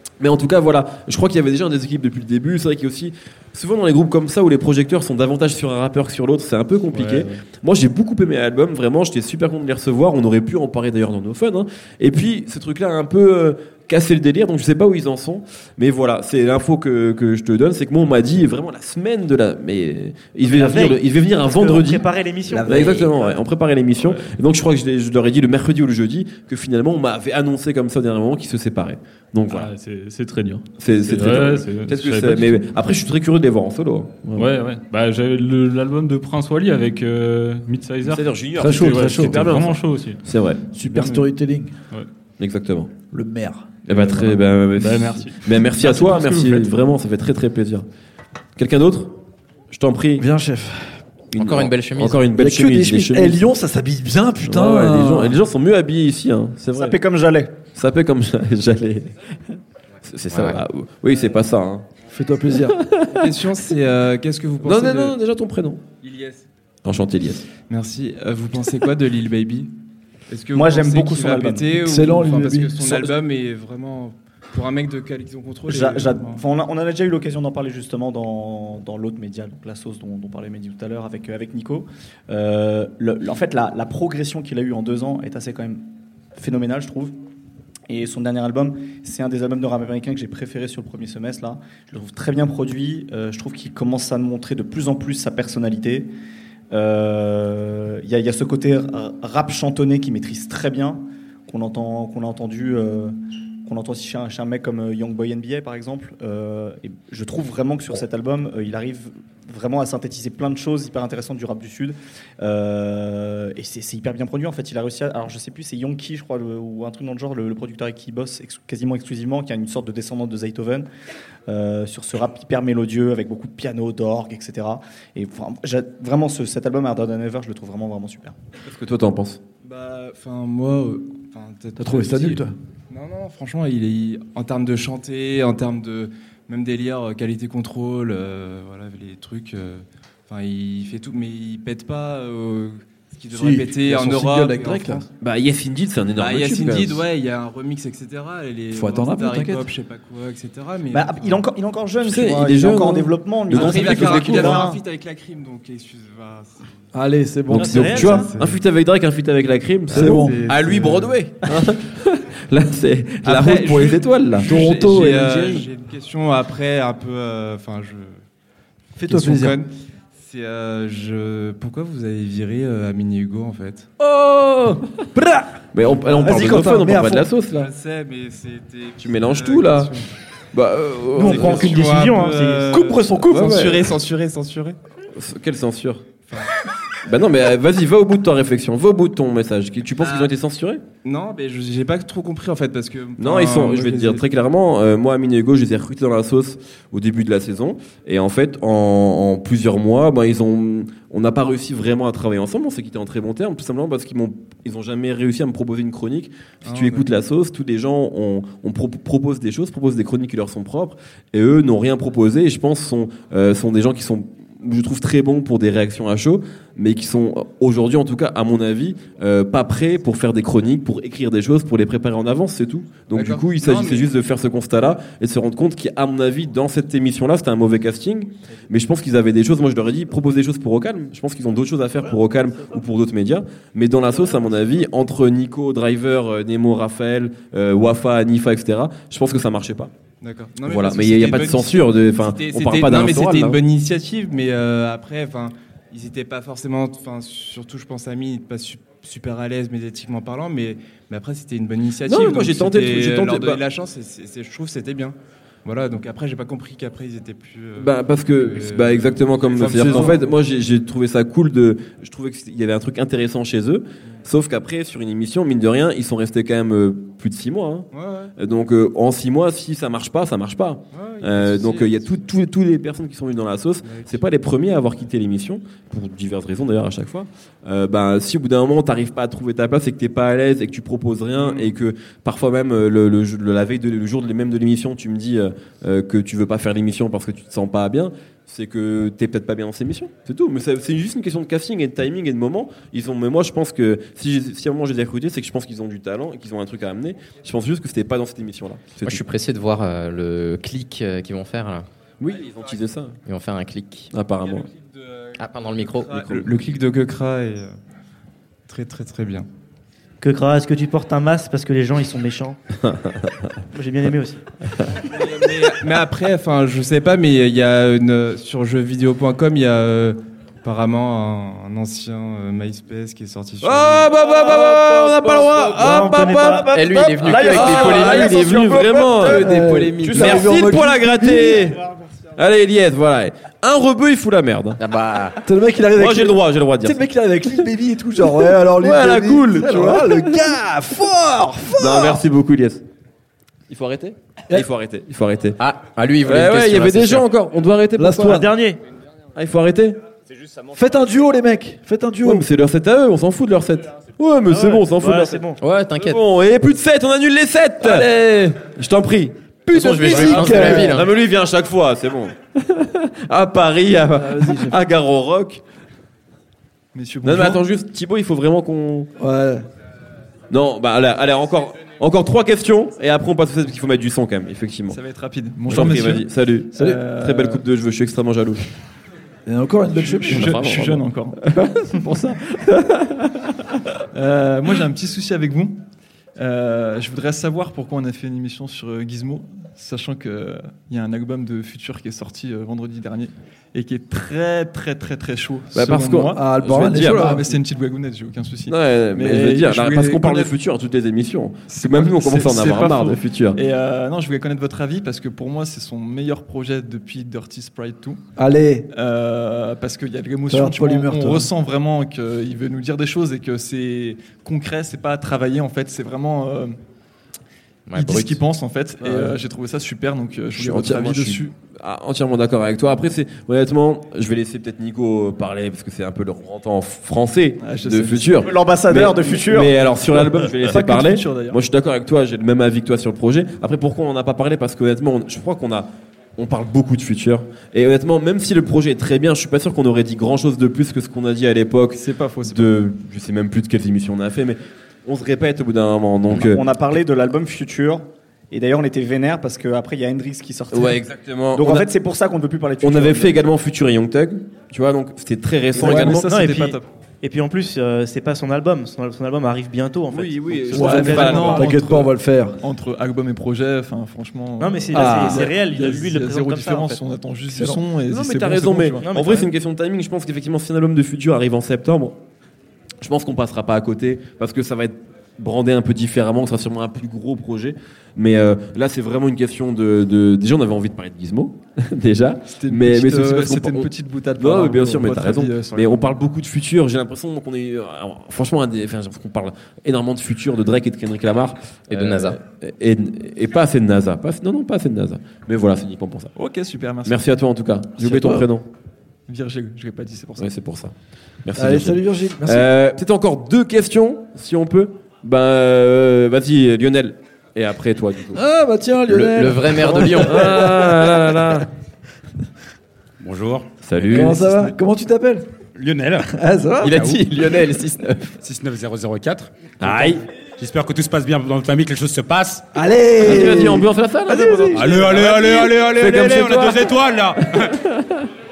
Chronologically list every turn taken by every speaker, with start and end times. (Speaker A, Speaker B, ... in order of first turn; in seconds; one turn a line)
Speaker A: 0.2-22.1
Speaker B: 6.9-7.4
Speaker C: 20.4-23.3
Speaker D: 22.5-23.1
Speaker A: 22.6-29.7
Speaker B: 24.0-24.3
Speaker B: 29.5-32.6
Speaker A: 30.8-34.5
Speaker B: 34.4-40.2
Speaker A: 38.0-40.6
Speaker D: 38.6-39.6
Speaker D: 40.7-41.8
Speaker B: 40.9-41.3
Speaker A: 42.4-42.9
Speaker D: 43.1-43.9
Speaker A: 43.9-47.9
Speaker B: 44.8-46.7
Speaker A: 48.6-49.1
Speaker A: 49.7-50.3
Speaker D: 50.2-51.0
Speaker A: 51.3-53.4
Speaker E: 51.4-52.3
Speaker D: 52.3-55.4
Speaker A: 54.4-57.0
Speaker F: 56.7-57.5
Speaker A: 57.8-59.1
Speaker A: 60.0-61.9
Speaker E: 60.3-60.6
Speaker D: 62.1-62.8
Speaker A: 62.7-63.3
Speaker G: 63.1-65.2
Speaker A: 64.6-65.8
Speaker G: 66.0-66.4
Speaker A: 66.8-67.5
Speaker G: 67.7-69.7
Speaker G: 70.3-76.4
Speaker F: 70.5-71.8
Speaker D: 71.8-73.1
Speaker F: 75.7-87.2
Speaker F: 87.9-96.1
Speaker F: 96.7-120.9
Speaker F: 121.5-128.3
Speaker A: 128.7-129.4
Speaker G: 129.6-145.1
Speaker D: 131.8-132.5
Speaker D: 143.3-145.1
Speaker A: 145.2-147.0
Speaker G: 146.2-151.4
Speaker D: 148.7-149.7
Speaker F: 150.9-154.8
Speaker A: 152.0-154.6
Speaker G: 153.5-156.8
Speaker D: 154.1-154.4
Speaker D: 156.9-158.3
Speaker A: 157.5-164.5
Speaker C: 157.6-158.3
Speaker G: 157.9-158.6
Speaker D: 159.9-160.5
Speaker G: 159.9-161.2
Speaker G: 163.2-168.2
Speaker D: 164.4-165.7
Speaker D: 169.0-169.6
Speaker G: 169.1-173.9
Speaker A: 174.0-174.8
Speaker D: 175.2-177.3
Speaker A: 175.7-177.7
Speaker G: 177.5-180.1
Speaker A: 179.0-179.9
Speaker A: 180.5-181.8
Speaker C: 181.2-182.7
Speaker G: 181.2-184.8
Speaker D: 182.7-183.9
Speaker A: 183.3-183.8
Speaker A: 185.2-186.1
Speaker A: 187.1-190.8
Speaker G: 190.0-190.3
Speaker G: 191.1-194.2
Speaker A: 193.2-239.9
Speaker G: 206.6-207.1
Speaker G: 223.1-224.1
Speaker G: 240.2-260.4
Speaker A: 240.7-243.6
Speaker A: 252.1-253.6
Speaker A: 257.8-299.3
Speaker G: 267.9-268.3
Speaker G: 270.9-272.0
Speaker G: 273.8-274.2
Speaker G: 281.4-281.7
Speaker E: 299.0-301.9
Speaker A: 302.2-303.2
Speaker E: 303.3-304.1
Speaker A: 304.1-304.7
Speaker E: 305.4-306.2
Speaker A: 306.1-306.5
Speaker G: 306.1-307.8
Speaker G: 308.7-309.5
Speaker C: 310.2-312.6
Speaker A: 312.9-313.3
Speaker C: 313.7-314.4
Speaker G: 315.0-324.2
Speaker A: 323.6-334.8
Speaker C: 325.8-326.8
Speaker E: 326.7-328.7
Speaker F: 326.7-329.3
Speaker D: 329.3-331.7
Speaker E: 334.8-335.4
Speaker D: 335.4-342.2
Speaker A: 336.0-337.0
Speaker A: 338.8-340.4
Speaker A: 341.8-342.8
Speaker A: 343.7-345.6
Speaker E: 345.6-347.3
Speaker A: 346.2-348.4
Speaker D: 348.0-348.5
Speaker C: 348.2-348.8
Speaker A: 349.4-350.0
Speaker D: 350.7-352.5
Speaker A: 352.2-355.4
Speaker C: 354.5-355.6
Speaker E: 355.6-356.2
Speaker A: 356.0-365.6
Speaker E: 359.7-361.1
Speaker D: 359.7-361.0
Speaker D: 364.1-364.8
Speaker H: 366.9-367.6
Speaker A: 367.2-369.1
Speaker D: 369.2-369.6
Speaker A: 370.5-375.0
Speaker H: 374.9-377.6
Speaker A: 375.7-378.7
Speaker D: 376.8-377.1
Speaker D: 379.5-380.6
Speaker H: 379.9-381.4
Speaker A: 380.3-383.2
Speaker H: 382.0-382.4
Speaker H: 384.1-385.8
Speaker H: 386.4-396.4
Speaker A: 395.7-397.4
Speaker D: 396.3-397.5
Speaker H: 397.0-400.5
Speaker A: 398.7-403.6
Speaker H: 401.7-408.2
Speaker D: 408.4-408.9
Speaker H: 408.9-416.8
Speaker D: 410.5-411.5
Speaker E: 417.9-418.4
Speaker H: 417.9-421.5
Speaker D: 419.1-419.4
Speaker A: 420.5-446.6
Speaker H: 427.6-428.4
Speaker F: 428.4-429.8
Speaker H: 430.4-431.6
Speaker H: 441.9-442.8
Speaker F: 446.3-451.0
Speaker A: 450.7-451.9
Speaker F: 451.5-453.4
Speaker A: 452.8-456.3
Speaker H: 455.7-456.9
Speaker D: 455.8-456.2
Speaker C: 456.2-461.6
Speaker A: 460.1-461.8
Speaker H: 460.7-469.1
Speaker D: 460.7-462.6
Speaker C: 464.6-467.0
Speaker D: 464.9-465.6
Speaker A: 468.0-472.2
Speaker C: 469.0-469.5
Speaker A: 473.0-496.3
Speaker H: 482.6-486.0
Speaker E: 491.9-492.4
Speaker H: 496.4-497.3
Speaker A: 497.1-498.7
Speaker D: 498.0-498.5
Speaker H: 499.3-500.5
Speaker A: 500.4-500.9
Speaker A: 501.4-508.4
Speaker D: 501.6-502.7
Speaker D: 508.3-511.2
Speaker E: 509.1-510.6
Speaker A: 509.9-511.7
Speaker I: 513.2-513.7
Speaker A: 513.8-514.5
Speaker D: 514.1-515.5
Speaker I: 515.8-516.3
Speaker D: 516.3-517.1
Speaker E: 516.8-518.3
Speaker I: 516.8-517.3
Speaker I: 518.4-522.7
Speaker A: 519.8-520.3
Speaker D: 522.7-525.2
Speaker A: 523.2-528.3
Speaker I: 524.7-527.8